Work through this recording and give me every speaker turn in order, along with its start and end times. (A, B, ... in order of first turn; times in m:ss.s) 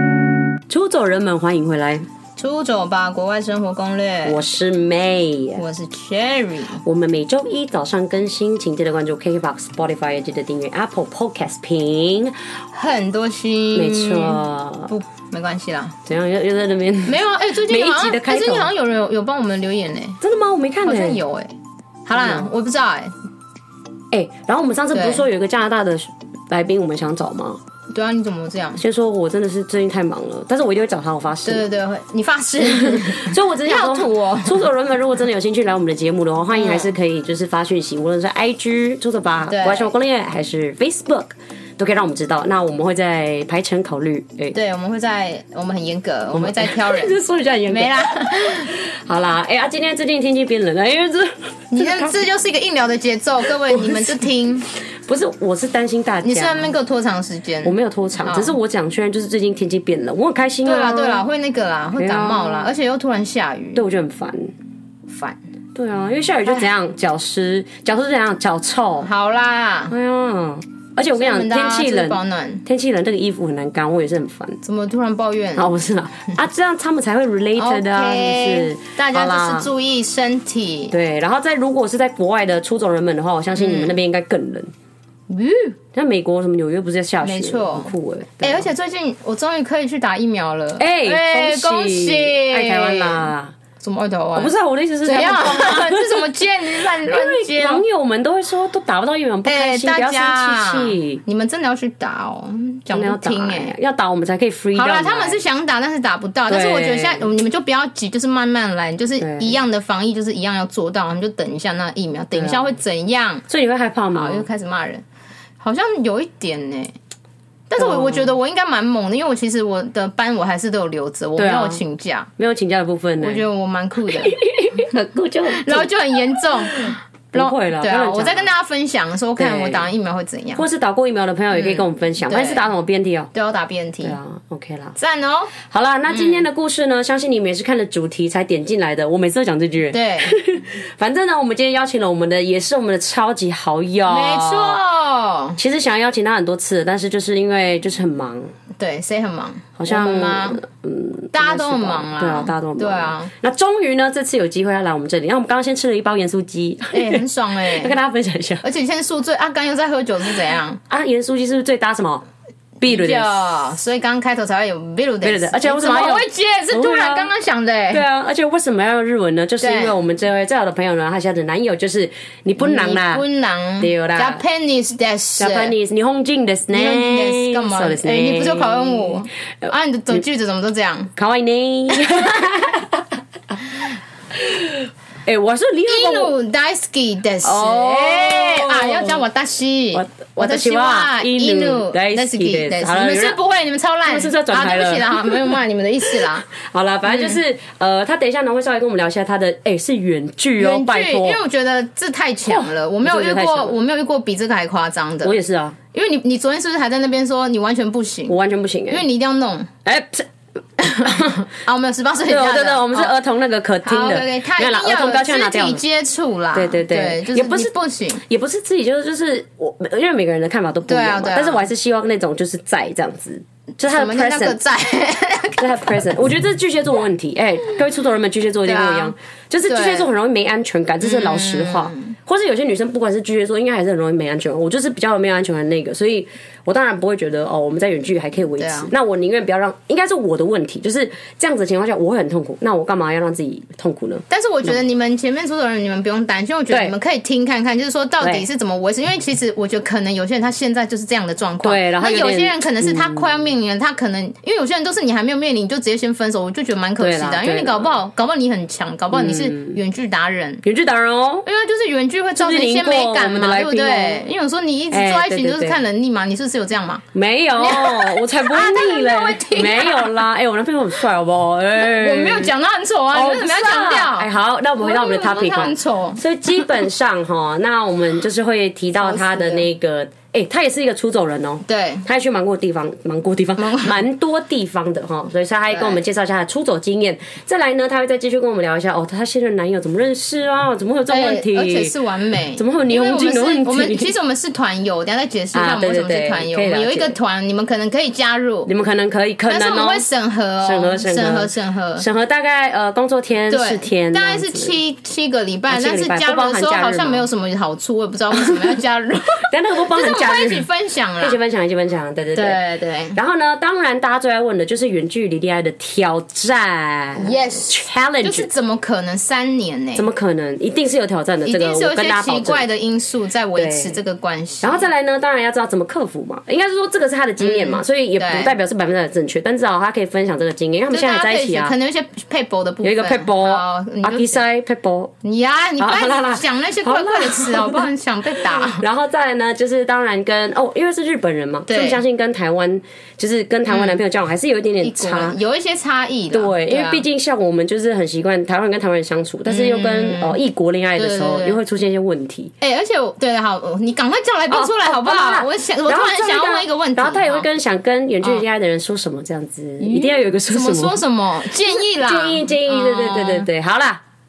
0:00.7-0:02.0 A
0:02.4-0:04.4 B
0:04.2-0:05.6 A
0:05.6-0:06.8 B
0:06.8-0:12.4 A
0:12.7-0:16.0 B
0:13.7-0:14.9 A
0:16.0-0:18.7 A
0:17.0-0:20.2 B
0:20.2-0:21.2 A
0:20.8-0:21.5 B
0:22.0-0:23.1 B
0:22.1-0:22.4 A
0:24.1-0:27.6 A
0:24.9-0:25.2 B
0:27.9-0:28.8 B
0:28.8-0:31.6 A
0:31.5-0:34.6 B
0:32.6-0:44.6 A
0:36.5-0:36.9 B
0:39.5-0:39.9 B
0:44.5-0:47.2 B
0:46.3-0:52.2 A
0:47.7-0:48.7 B
0:51.7-0:54.7 B
0:53.7-0:54.2 A
0:54.9-0:56.7 A
0:56.2-0:58.6 B
0:57.6-1:01.2 A
1:00.6-1:03.8 B
1:02.0-1:02.7 A
1:03.8-1:04.5 A
1:05.1-1:05.4 B
1:05.8-1:09.1 A
1:09.0-1:09.9 B
1:09.9-1:14.6 A
1:11.1-1:12.6 B
1:14.6-1:15.7 B
1:15.6-1:19.7 A
1:17.6-1:20.9 B
1:20.9-1:24.7 A
1:23.6-1:23.9 B
1:25.3-1:25.8 B
1:25.9-1:28.7 A
1:27.2-1:33.3 B
1:30.8-1:33.6 A
1:33.8-1:34.5 B
1:34.3-1:36.2 A
1:35.0-1:37.8 B
1:36.8-1:41.2 A
1:39.4-1:43.8 B
1:42.9-1:45.4 A
1:44.8-1:53.4 B
1:46.5-1:47.3 A
1:49.2-1:49.6 A
1:52.3-1:52.7 A
1:53.5-1:54.5 A
1:54.1-1:55.0 B
1:55.6-1:57.0 B
1:57.7-2:02.3 B
1:57.8-1:58.3 A
2:01.4-2:01.8 A
2:02.4-2:03.4 A
2:03.2-2:04.3 B
2:04.1-2:05.9 A
2:05.5-2:10.6 B
2:06.4-2:08.5 A
2:09.4-2:09.9 A
2:10.6-2:13.3 A
2:11.5-2:12.6 B
2:13.3-2:14.2 B
2:14.0-2:15.0 A
2:15.0-2:15.5 B
2:15.6-2:24.8 A
2:16.1-2:16.4 B
2:19.9-2:20.4 B
2:24.1-2:25.6 B
2:25.6-2:28.5 A
2:28.8-2:30.6 B
2:29.8-2:38.6 A
2:31.3-2:33.3 B
2:36.9-2:37.9 B
2:38.6-2:40.8 B
2:40.9-2:42.2 A
2:42.8-2:43.4 A
2:42.8-2:48.0 B
2:45.2-2:47.3 A
2:47.9-2:53.2 A
2:49.6-2:49.9 B
2:52.6-2:55.7 B
2:53.8-2:54.4 A
2:55.4-2:59.7 A
2:56.7-3:01.1 B
3:01.2-3:03.0 A
3:01.9-3:02.4 B
3:04.3-3:06.3 A
3:05.9-3:16.5 B
3:07.4-3:09.2 A
3:09.9-3:13.4 A
3:14.1-3:15.6 A
3:16.1-3:21.4 A
3:17.1-3:17.4 B
3:20.6-3:25.4 B
3:22.5-3:23.8 A
3:25.2-3:25.8 A
3:25.9-3:28.3 B
3:28.3-3:29.0 A
3:28.9-3:29.7 B
3:29.8-3:30.3 A
3:30.8-3:33.1 B
3:31.0-3:31.4 A
3:32.2-3:35.8 A
3:33.8-3:38.2 B
3:36.5-3:44.6 A
3:40.9-3:41.6 B
3:43.8-3:45.6 B
3:45.6-4:04.7 A
3:48.6-3:49.1 B
3:49.7-3:50.1 B
3:51.0-3:52.1 B
3:58.6-3:58.9 B
4:04.3-4:20.6 B
4:06.7-4:06.9 A
4:08.2-4:08.5 A
4:11.6-4:13.3 A
4:17.0-4:17.9 A
4:19.1-4:19.8 A
4:20.6-4:21.4 A
4:21.4-4:27.0 B
4:22.4-4:24.2 A
4:24.9-4:25.8 A
4:27.1-4:32.5 A
4:27.6-4:30.2 B
4:31.8-4:34.3 B
4:33.1-4:51.9 A
4:34.8-4:36.2 B
4:38.9-4:39.7 B
4:41.7-4:42.0 B
4:43.6-4:44.0 B
4:45.7-4:46.0 B
4:51.1-4:58.7 B
4:52.6-4:54.1 A
4:55.5-4:57.1 A
4:58.7-5:00.0 A
4:59.5-5:02.0 B
5:00.6-5:04.8 A
5:03.5-5:11.4 B
5:05.7-5:07.2 A
5:08.4-5:08.8 A
5:09.5-5:10.7 A
5:11.2-5:12.6 A
5:12.4-5:13.2 B
5:13.1-5:18.5 A
5:17.2-5:20.1 B
5:20.0-5:22.6 A
5:21.4-5:24.9 B
5:23.6-5:24.0 A
5:24.6-5:31.7 A
5:27.4-5:28.5 B
5:30.9-5:34.4 B
5:32.8-5:35.1 A
5:35.2-5:38.8 B
5:35.8-5:37.9 A
5:38.5-5:45.4 A
5:41.7-5:42.0 B
5:43.7-5:44.0 B
5:44.8-5:47.0 B
5:46.3-5:52.5 A
5:49.4-5:50.4 B
5:51.0-5:51.6 B
5:52.6-5:57.5 B
5:54.5-6:01.0 A
5:59.8-6:03.5 B
6:01.7-6:04.0 A